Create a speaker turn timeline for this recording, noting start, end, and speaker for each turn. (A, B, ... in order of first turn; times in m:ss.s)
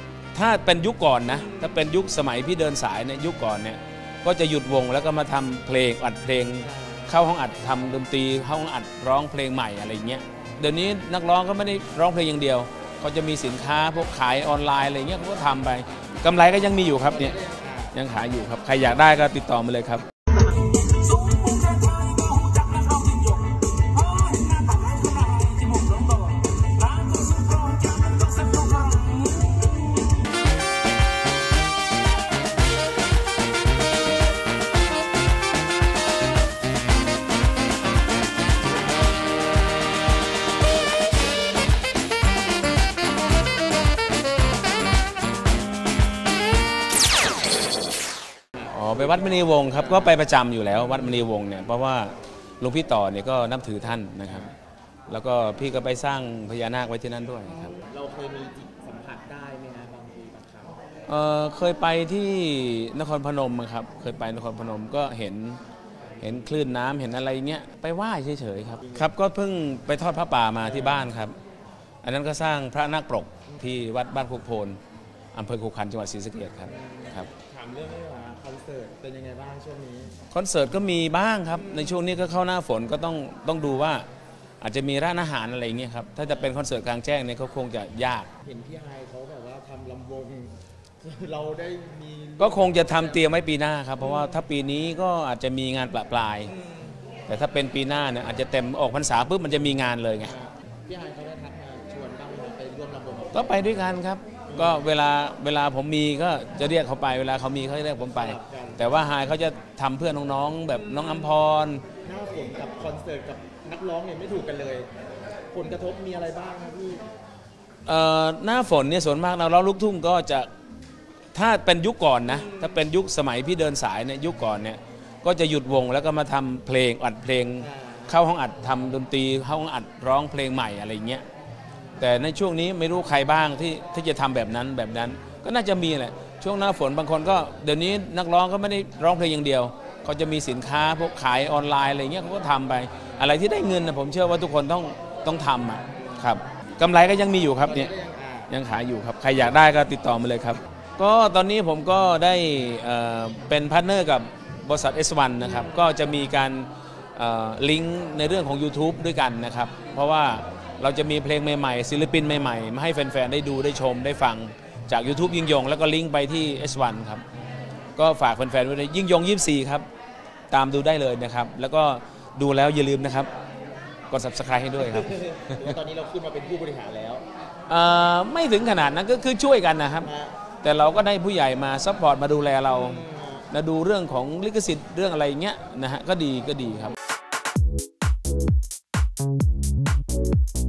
0:00.3-0:17.4 A
0:06.6-0:07.1 B
0:17.1-0:17.9 B
0:17.9-0:20.0 A
0:20.7-0:29.6 A
0:48.6-0:54.5 A
0:49.0-0:50.2 B
0:54.3-0:54.5 B
0:55.1-0:57.8 A
0:57.7-1:00.8 B
1:01.1-1:05.6 A
1:06.2-1:11.4 A
1:08.8-1:09.1 B
1:10.6-1:11.1 B
1:12.0-1:14.8 A
1:15.3-1:17.3 A
1:16.6-1:20.2 B
1:20.3-1:24.0 A
1:21.6-1:22.0 B
1:24.6-1:28.3 A
1:26.2-1:26.5 B
1:28.4-1:33.4 B
1:32.4-1:36.5 A
1:34.0-1:34.3 B
1:36.5-1:36.9 B
1:37.3-1:40.3 A
1:40.2-1:43.9 B
1:43.3-1:51.8 A
1:44.5-1:44.9 B
1:48.0-1:49.2 B
1:52.0-1:54.9 B
1:55.5-1:57.0 B
1:57.8-2:00.5 A
2:01.3-2:11.2 A
2:02.3-2:02.7 B
2:07.6-2:08.1 B
2:12.0-2:27.9 A
2:25.9-2:26.3 B
2:27.6-2:28.5 B
2:28.5-2:47.2 A
2:35.4-2:35.9 B
2:48.0-2:49.9 A
2:50.5-2:53.3 A
2:54.1-2:55.7 A
2:54.8-2:57.2 B
2:57.7-3:00.1 A
3:00.0-3:00.4 B
3:00.6-3:07.0 A
3:02.7-3:03.5 B